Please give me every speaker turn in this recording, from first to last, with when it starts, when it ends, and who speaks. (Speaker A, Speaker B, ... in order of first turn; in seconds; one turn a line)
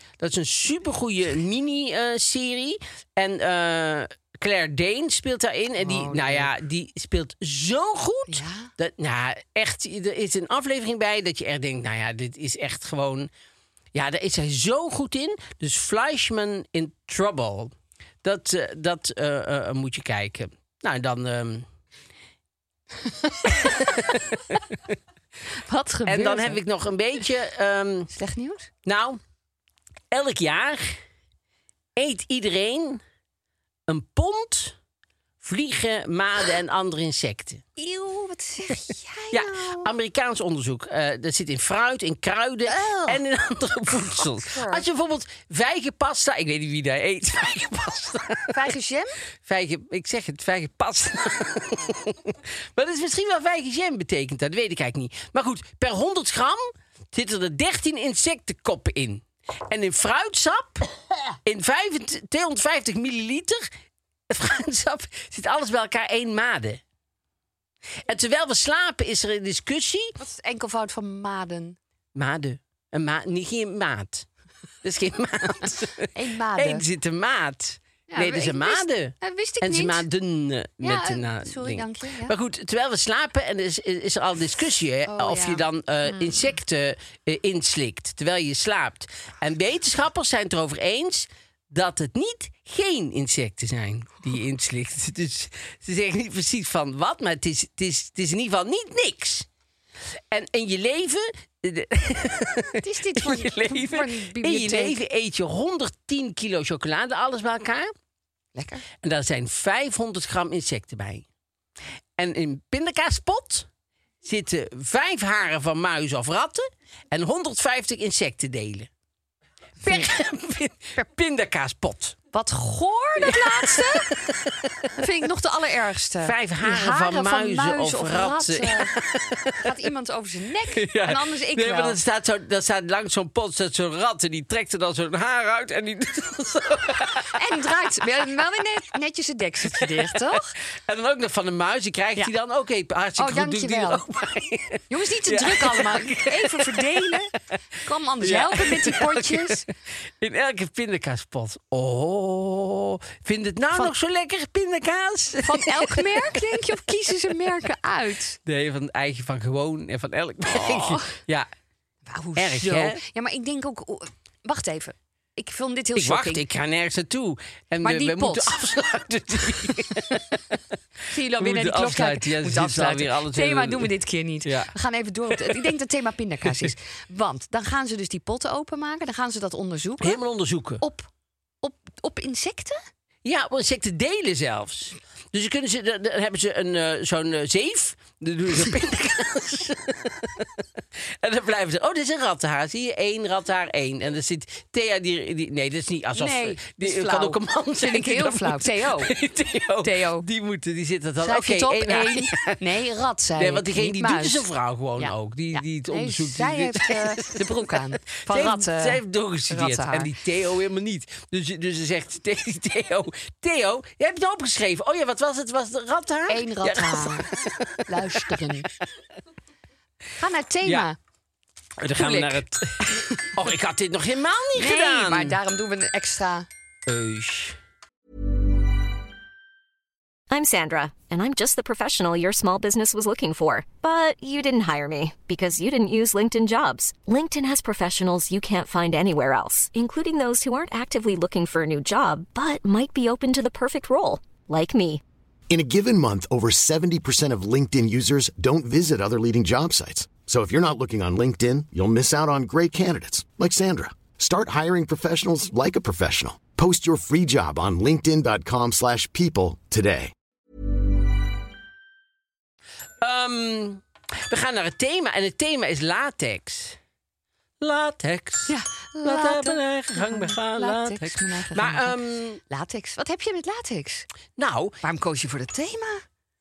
Speaker A: 0.2-13.3
Speaker B: 5.8-6.5
Speaker B: 8.3-8.7
Speaker A: 13.9-21.7
Speaker A: 23.5-24.4
Speaker B: 25.6-26.6
Speaker A: 26.1-28.1
Speaker B: 28.1-28.7
Speaker A: 28.9-29.2
Speaker A: 30.1-31.0
Speaker A: 32.0-33.0
Speaker A: 33.9-34.8
Speaker A: 35.4-37.6
Speaker B: 37.8-39.9
Speaker A: 39.3-48.6
Speaker B: 42.7-43.2
Speaker B: 44.2-44.8
Speaker B: 48.5-49.2
Speaker A: 49.5-60.9
Speaker A: 61.5-63.7
Speaker A: 64.3-66.8
Speaker A: 68.0-70.2
Speaker B: 70.2-71.8
Speaker A: 72.2-74.3
Speaker A: 74.8-99.5
Speaker B: 76.1-76.8
Speaker B: 78.1-80.0
Speaker B: 80.8-82.3
Speaker B: 85.1-85.6
Speaker A: 100.3-107.9
Speaker B: 102.8-105.0
Speaker B: 108.5-108.8
Speaker A: 109.0-111.2
Speaker A: 112.2-113.7
Speaker A: 114.2-118.9
Speaker B: 119.8-120.1
Speaker A: 119.8-122.2
Speaker B: 122.3-124.1
Speaker A: 123.2-125.0
Speaker B: 125.0-128.9
Speaker A: 126.2-129.7
Speaker B: 129.6-132.0
Speaker A: 130.8-137.4
Speaker B: 137.3-140.5
Speaker A: 139.7-147.2
Speaker B: 143.2-144.0
Speaker B: 144.9-147.3
Speaker B: 147.8-149.7
Speaker A: 148.2-149.7
Speaker A: 150.2-156.5
Speaker B: 155.4-158.4
Speaker A: 158.5-161.5
Speaker B: 160.5-161.2
Speaker B: 162.1-166.4
Speaker A: 162.4-163.0
Speaker A: 166.0-170.4
Speaker B: 167.8-168.6
Speaker B: 171.1-180.2
Speaker A: 171.4-173.9
Speaker A: 174.4-174.7
Speaker A: 175.3-175.7
Speaker A: 180.0-180.8
Speaker B: 180.8-181.1
Speaker B: 181.6-182.8
Speaker A: 183.2-190.5
Speaker A: 191.2-202.6
Speaker B: 196.2-199.1
Speaker B: 199.8-200.3
Speaker B: 201.2-204.5
Speaker A: 203.4-207.4
Speaker B: 205.0-210.1
Speaker A: 208.2-218.4
Speaker B: 216.3-217.3
Speaker B: 217.9-218.7
Speaker B: 220.2-221.0
Speaker A: 220.6-220.9
Speaker A: 221.8-225.4
Speaker B: 221.9-223.0
Speaker B: 224.6-226.5
Speaker A: 226.9-227.6
Speaker C: 230.3-245.0
Speaker D: 245.5-260.1
Speaker A: 263.0-266.8
Speaker A: 267.6-268.5
Speaker B: 268.5-274.1
Speaker A: 269.0-272.4
Speaker A: 274.4-274.8
Speaker B: 274.8-276.0